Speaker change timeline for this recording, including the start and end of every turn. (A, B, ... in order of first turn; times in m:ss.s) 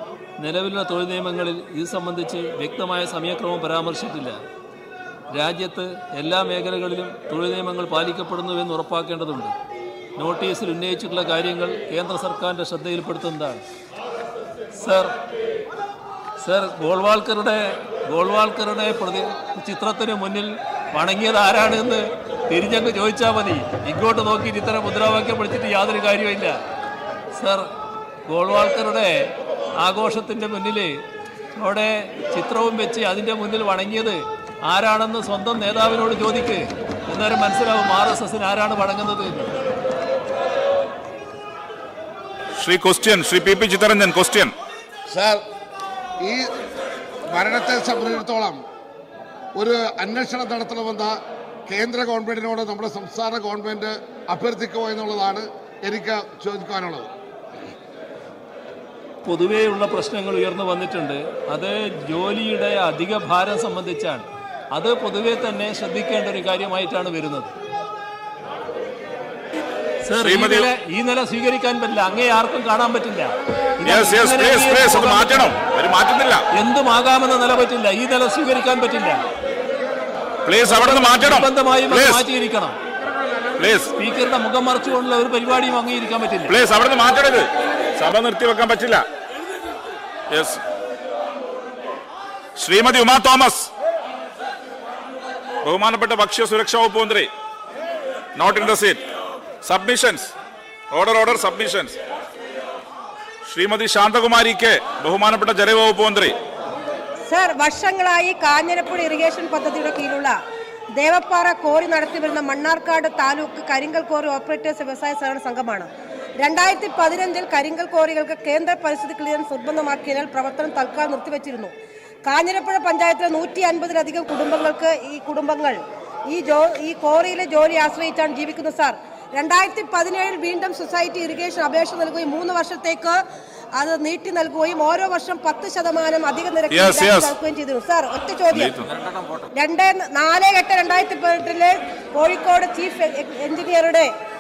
0:00.4-0:04.4 A
0:05.3-0:09.5 A
0:10.2-0:13.6 A
0:14.8-0:15.1 A
0:16.4-0:26.6 A
0:27.3-0:27.7 A
0:28.3-0:31.0 A
0:31.6-0:39.5 A
0:42.6-0:44.5 B
0:45.1-0:45.4 C
0:46.2-0:46.5 C
0:47.3-0:48.6 C
0:49.6-0:51.2 C
0:51.7-0:57.1 C
0:59.2-1:07.5 A
1:10.0-1:15.5 A
1:10.2-1:10.7 B
1:13.8-1:16.4 B
1:16.5-1:19.2 A
1:20.4-1:22.2 B
1:20.6-1:22.8 A
1:23.6-1:23.9 B
1:24.0-1:26.5 A
1:26.5-1:29.0 B
1:30.3-1:30.6 B
1:32.6-1:33.7 B
1:35.6-1:37.3 B
1:38.4-1:39.0 B
1:39.6-1:40.3 B
1:40.9-1:42.0 B
1:43.4-1:46.3 B
1:47.3-1:50.3 D
1:51.0-1:55.9 D
1:56.4-2:01.7 D
2:02.3-2:05.8 D
2:06.3-2:13.2 D
2:13.8-2:18.7 D
2:16.7-2:17.3 B
2:18.5-2:18.9 B
2:19.6-2:24.1 D